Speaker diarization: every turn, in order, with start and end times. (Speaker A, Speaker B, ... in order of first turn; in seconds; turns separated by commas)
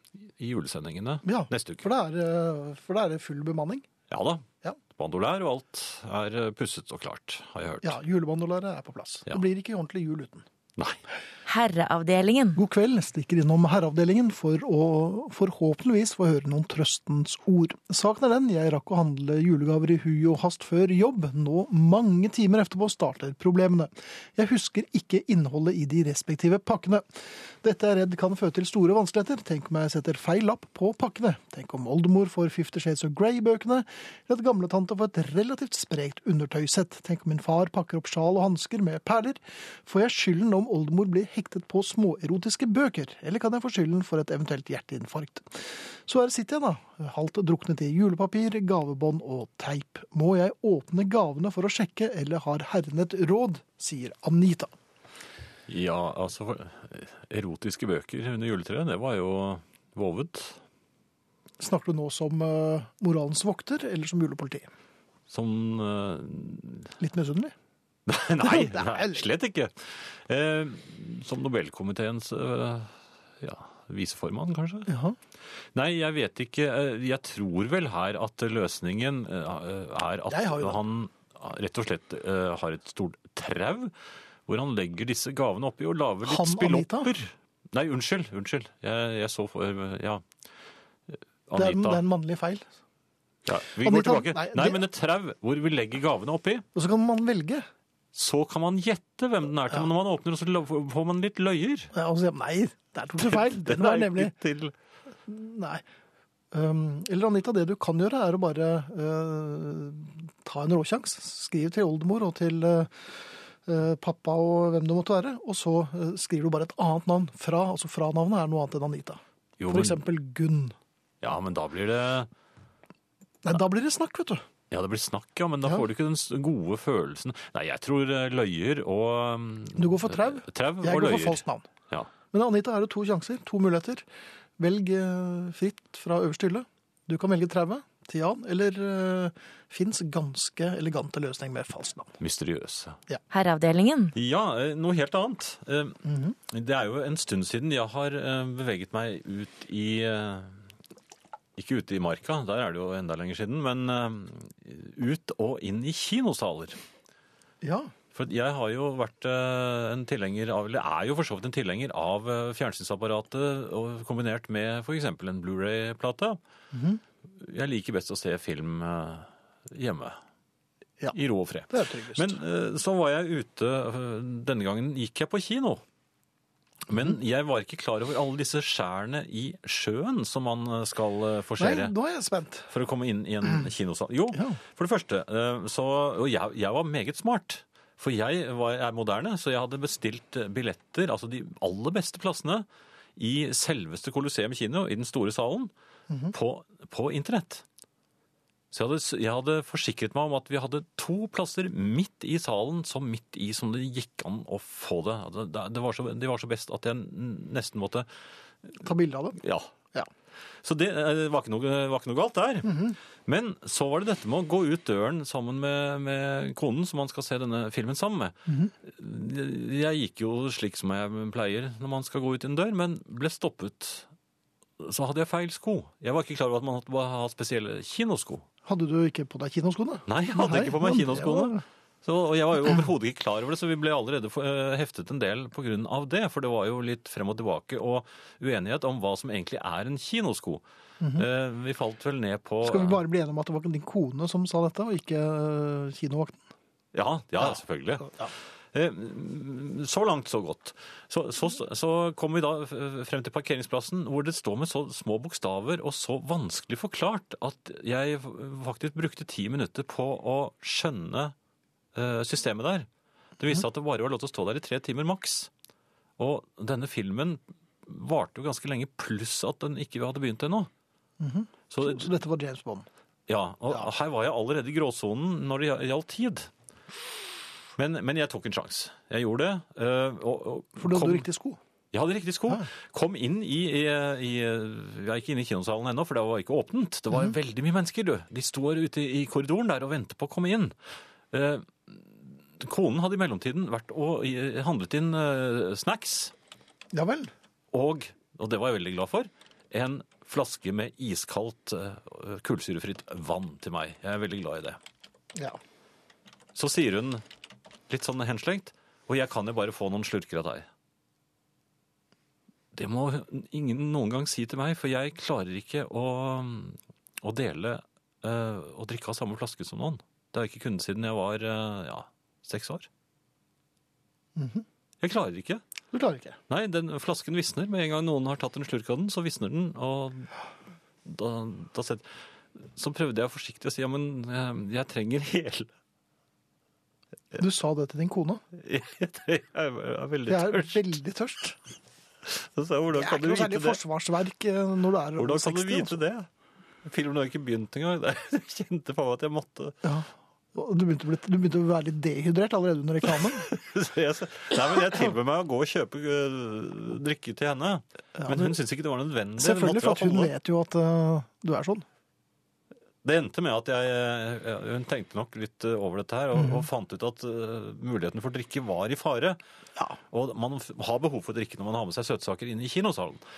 Speaker A: 0.2-1.9, Speaker B: 1.2-3.9, Speaker A: 4.1-8.0, Speaker B: 7.8-10.4, Speaker C: 11.4-12.6, Speaker B: 12.6-54.7, Speaker A: 55.7-60.6, Speaker B: 61.6-64.7, Speaker A: 65.3-66.9, Speaker B: 67.0-67.5, Speaker A: 68.1-74.9, Speaker B: 68.4-69.2, Speaker B: 74.9-75.2, Speaker A: 75.7-83.9, Speaker B: 80.3-80.8, Speaker A: 84.5-90.2, Speaker B: 86.2-87.1, Speaker A: 91.5-92.0, Speaker B: 91.5-92.7, Speaker A: 93.4-96.6, Speaker B: 93.8-94.8, Speaker B: 96.7-97.7, Speaker A: 98.1-101.9, Speaker B: 101.9-104.3, Speaker A: 103.2-104.7, Speaker B: 105.2-105.8, Speaker B: 106.5-120.8, Speaker A: 119.6-120.0, Speaker A: 121.2-122.3, Speaker B: 123.4-124.4, Speaker A: 124.7-132.1, Speaker B: 129.8-131.7, Speaker B: 132.3-134.0, Speaker B: 134.6-142.2, Speaker A: 142.2-143.0, Speaker C: 143.3-144.1, Speaker A: 144.1-150.6, Speaker B: 146.1-146.3, Speaker A: 151.6-156.8, Speaker B: 157.6-157.9, Speaker A: 158.1-166.4, Speaker B: 166.7-167.0, Speaker A: 167.4-170.2, Speaker A: 171.1-175.8, Speaker B: 171.7-172.4, Speaker A: 176.9-181.9, Speaker B: 181.6-182.7, Speaker A: 182.7-195.7, Speaker B: 184.3-184.6, Speaker A: 196.3-197.6, Speaker A: 198.7-208.1, Speaker B: 208.8-209.4, Speaker A: 209.4-209.7, Speaker A: 210.6-224.1, Speaker B: 212.6-212.9, Speaker B: 218.5-218.7, Speaker A: 224.8-228.4, Speaker B: 228.6-231.6, Speaker A: 230.1-240.6, Speaker B: 241.0-241.3, Speaker A: 241.1-243.0, Speaker B: 242.6-246.4, Speaker A: 246.9-261.3, Speaker B: 247.4-248.3, Speaker A: 261.9-262.9, Speaker A: 263.4-265.5, Speaker A: 266.2-270.7, Speaker B: 271.2-272.9, Speaker A: 271.7-272.1, Speaker A: 273.3-276.5, Speaker A: 277.8-281.2, Speaker B: 280.8-281.6, Speaker A: 281.9-290.7, Speaker A: 291.3-296.3, Speaker B: 296.9-297.3, Speaker A: 297.7-304.8, Speaker A: 306.5-307.2, Speaker A: 307.9-310.7, Speaker A: 312.7-322.9, Speaker B: 324.4-324.6, Speaker A: 325.0-325.6, Speaker B: 325.9-326.4, Speaker A: 326.5-330.3, Speaker A: 331.0-332.0, Speaker A: 332.6-335.7, Speaker B: 337.3-338.4, Speaker A: 338.6-340.9, Speaker B: 340.3-341.6, Speaker A: 342.2-343.8, Speaker B: 342.9-346.0, Speaker A: 345.2-346.3, Speaker A: 346.8-349.8, Speaker B: 349.8-353.5, Speaker A: 353.2-360.3, Speaker B: 358.2-358.5, Speaker B: 359.4-361.9, Speaker A: 363.0-369.4, Speaker B: 366.4-366.6, Speaker A: 370.1-373.2